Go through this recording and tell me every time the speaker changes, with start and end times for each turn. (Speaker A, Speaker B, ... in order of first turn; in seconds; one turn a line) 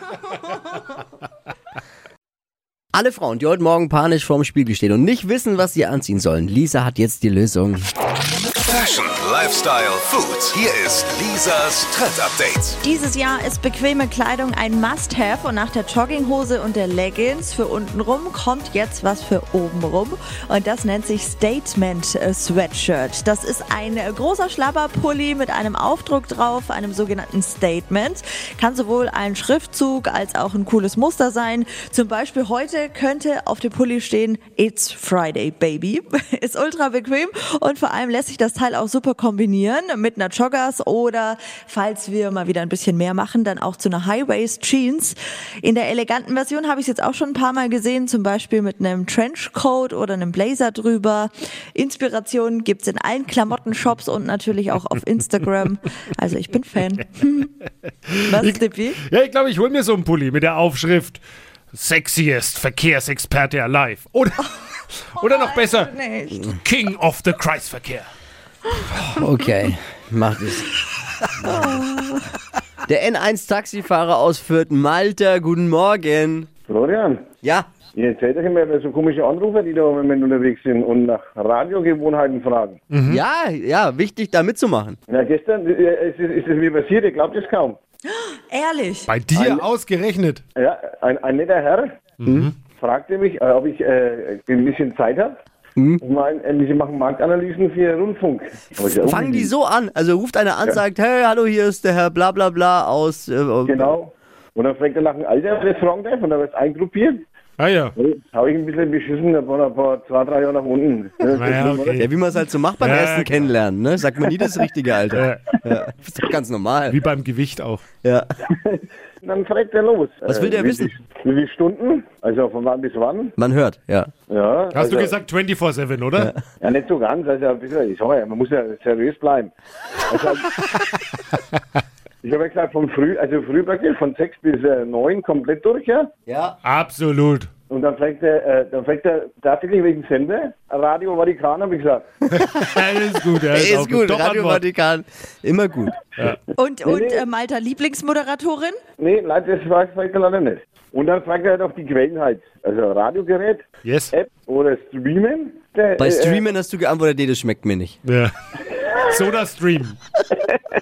Speaker A: 2.9-7.9
Speaker B: 8.7-12.8
Speaker C: 12.8-57.5
Speaker C: 58.2-59.0
Speaker D: 58.4-61.2
Speaker D: 61.7-64.5
Speaker D: 65.2-65.9
Speaker C: 65.2-66.5
Speaker D: 66.6-68.1
Speaker A: 68.9-70.7
Speaker A: 71.4-71.8
Speaker C: 71.5-71.8
Speaker A: 72.8-76.5
Speaker E: 76.7-77.3
Speaker A: 77.4-77.7
Speaker E: 77.9-82.8
Speaker D: 82.9-83.2
Speaker A: 83.1-85.0
Speaker E: 85.1-87.8
Speaker C: 88.1-89.1
Speaker D: 89.1-90.4
Speaker E: 89.3-89.7
Speaker E: 90.6-92.0
Speaker D: 92.2-92.5
Speaker E: 92.8-95.4
Speaker E: 96.0-99.5
Speaker A: 98.8-104.0
Speaker E: 103.7-107.2
Speaker D: 107.6-108.0
Speaker E: 108.0-112.0
Speaker D: 111.4-112.1
Speaker A: 112.0-117.0
Speaker D: 112.8-113.5
Speaker D: 115.2-115.4
Speaker D: 116.9-117.8
Speaker A: 118.0-118.3
Speaker E: 118.5-123.3
Speaker A: 120.2-120.9
Speaker A: 123.4-124.1
Speaker E: 124.3-125.2
Speaker D: 124.7-126.3
Speaker E: 126.6-129.5
Speaker E: 130.1-130.5
Speaker E: 132.2-136.1
Speaker A: 136.3-136.6
Speaker D: 136.6-137.5
Speaker E: 137.7-142.4
Speaker D: 142.5-144.6
Speaker A: 142.6-142.8
Speaker A: 143.5-146.0
Speaker C: 146.6-148.8
Speaker E: 146.9-147.2
Speaker E: 149.0-156.4
Speaker D: 153.8-154.1
Speaker A: 156.0-158.0
Speaker D: 158.1-158.3
Speaker D: 159.1-160.0